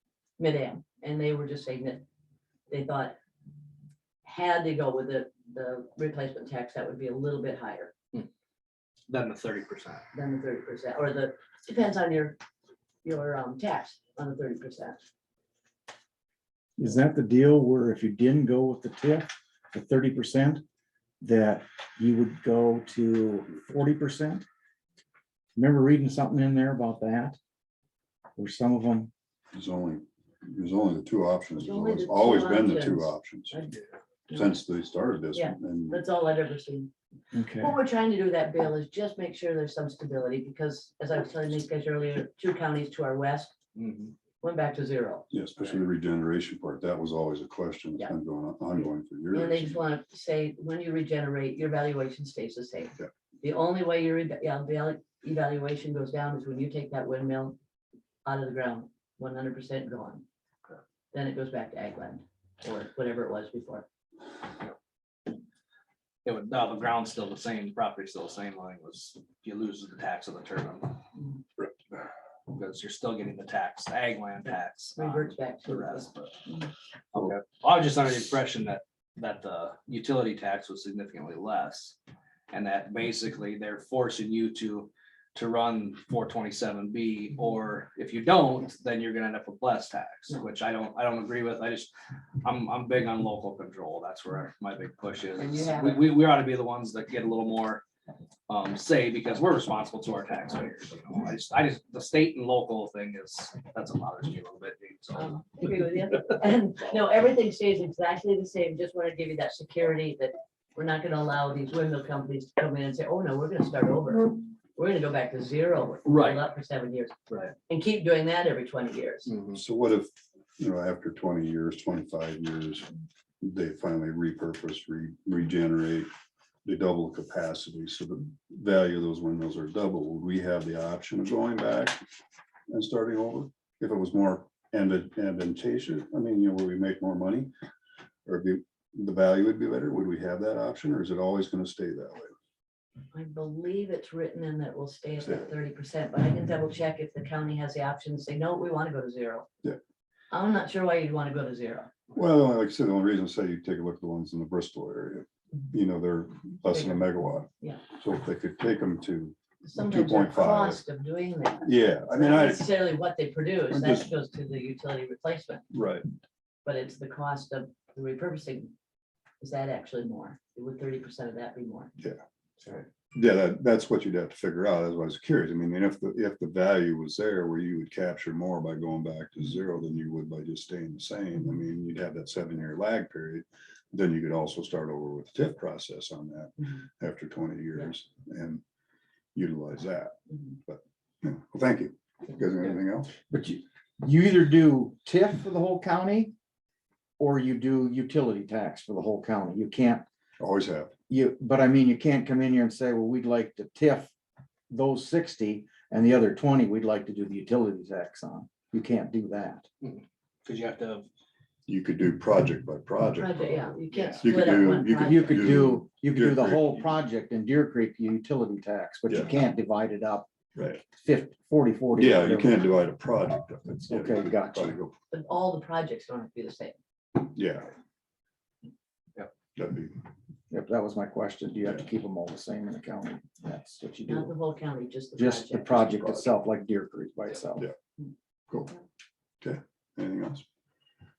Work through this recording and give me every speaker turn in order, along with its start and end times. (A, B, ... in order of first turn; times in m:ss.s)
0:00.4-0:02.0 A
0:02.7-0:03.2 A
0:04.2-0:07.9 A
0:09.1-0:10.0 B
0:10.1-0:12.4 A
0:13.0-0:15.0 A
0:16.8-0:20.6 C
0:21.2-0:24.4 C
0:25.6-0:27.4 C
0:28.4-0:29.1 C
0:29.5-0:33.6 D
0:31.6-0:33.7 A
0:34.3-0:36.0 D
0:35.3-0:36.9 A
0:37.3-0:37.8 C
0:37.5-0:43.5 A
0:43.8-0:44.1 B
0:44.4-0:45.3 A
0:45.3-0:49.8 D
0:49.3-0:57.6 A
0:58.2-1:00.2 A
1:01.1-1:03.9 A
1:06.2-1:11.0 B
1:12.5-1:16.4 B
1:15.0-1:16.7 A
1:17.1-1:22.0 B
1:22.5-1:31.9 B
1:32.4-1:37.8 B
1:35.4-1:36.1 A
1:38.5-1:45.5 B
1:45.1-1:57.1 A
1:56.0-1:56.4 B
1:57.7-1:59.3 A
1:59.3-1:59.6 B
1:59.5-2:06.1 D
2:06.6-2:12.0 D
2:12.7-2:17.5 D
2:18.2-2:22.3 D
2:23.1-2:29.5 A
2:25.2-2:25.5 D
2:30.3-2:31.9 A
2:32.1-2:37.5 D
2:36.7-2:37.1 A
2:38.0-2:40.8 D
2:39.6-2:45.6 A
2:41.6-2:42.7 D
2:43.7-2:44.1 D
2:45.7-2:46.0 D
2:46.6-2:48.7 A
2:49.4-2:51.9 A
2:52.0-2:52.2 D
2:53.1-3:08.6 D
3:09.3-3:13.1 D
3:13.2-3:16.3 C
3:17.2-3:20.0 C
3:20.4-3:20.9 D
3:21.1-3:24.1 C
3:24.7-3:29.7 C
3:29.8-3:31.1 B
3:31.7-3:36.9 D
3:33.2-3:35.7 A
3:33.9-3:34.3 B
3:35.0-3:40.3 C
3:40.5-3:40.8 D
3:40.9-3:42.6 C
3:42.0-3:44.9 D
3:43.9-3:44.8 C
3:45.1-3:46.8 A
3:47.2-3:47.7 D
3:49.5-3:50.0 D
3:50.5-3:54.3 C
3:54.1-3:56.2 A
3:55.2-3:57.7 C
3:59.4-4:00.4 D